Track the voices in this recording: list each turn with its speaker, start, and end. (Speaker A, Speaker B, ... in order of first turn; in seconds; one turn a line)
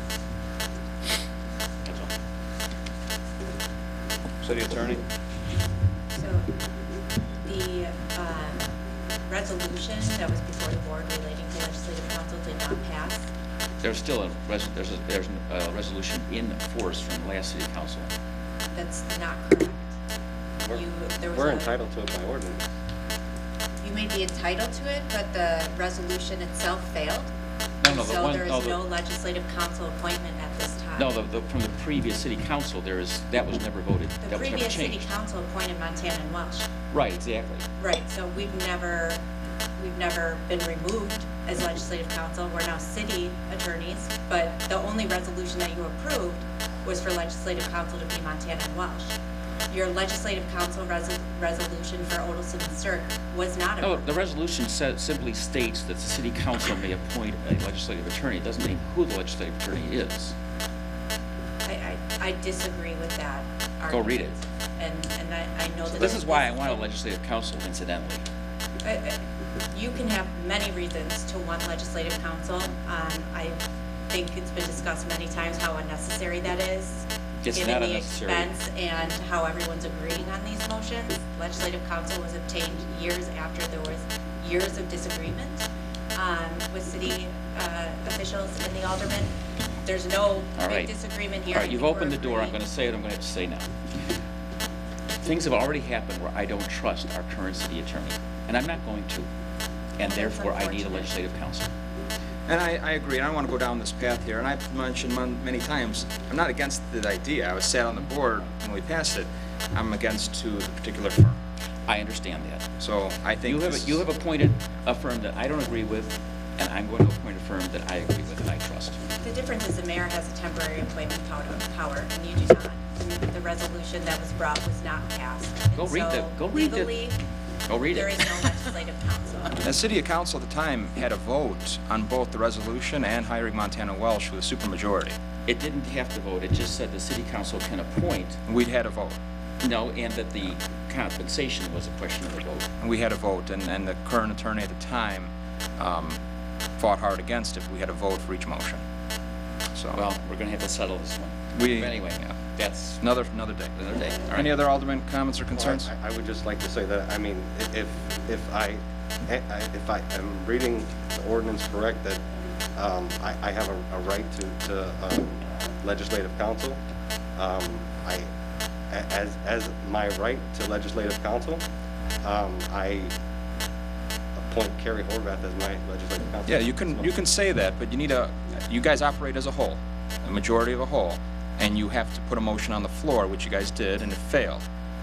Speaker A: 1.9-2.1
Speaker B: 4.4-5.0
Speaker C: 6.2-6.5
Speaker C: 7.5-8.6
Speaker C: 9.3-13.3
Speaker A: 13.8-18.1
Speaker C: 18.8-19.9
Speaker D: 20.6-22.6
Speaker C: 20.7-21.8
Speaker C: 23.8-27.3
Speaker A: 27.8-28.8
Speaker C: 27.9-31.1
Speaker A: 31.0-35.1
Speaker C: 34.2-36.7
Speaker A: 36.9-37.7
Speaker C: 37.8-39.2
Speaker C: 39.8-49.2
Speaker C: 49.7-54.1
Speaker A: 53.8-60.4
Speaker C: 61.6-66.9
Speaker A: 63.9-64.4
Speaker A: 65.9-68.2
Speaker C: 68.8-69.2
Speaker C: 69.7-92.6
Speaker A: 77.4-78.5
Speaker A: 90.6-90.9
Speaker A: 91.5-93.7
Speaker A: 95.2-99.3
Speaker A: 100.0-101.7
Speaker C: 100.0-101.1
Speaker B: 102.5-111.4
Speaker A: 111.9-112.6
Speaker B: 112.8-114.0
Speaker A: 113.4-119.0
Speaker C: 119.2-127.2
Speaker A: 125.7-127.1
Speaker A: 127.7-128.5
Speaker C: 127.9-129.6
Speaker B: 129.6-135.2
Speaker A: 135.5-138.4
Speaker B: 138.5-139.2
Speaker A: 139.6-142.7
Speaker B: 142.8-146.2
Speaker B: 146.8-148.8
Speaker A: 149.9-153.0
Speaker B: 151.6-152.3
Speaker B: 153.0-153.7
Speaker A: 153.7-154.5
Speaker B: 154.3-155.9
Speaker D: 155.6-162.2
Speaker D: 162.8-166.8
Speaker D: 167.4-168.3
Speaker D: 168.9-171.6
Speaker D: 172.2-173.1
Speaker D: 174.4-177.1
Speaker B: 176.5-184.7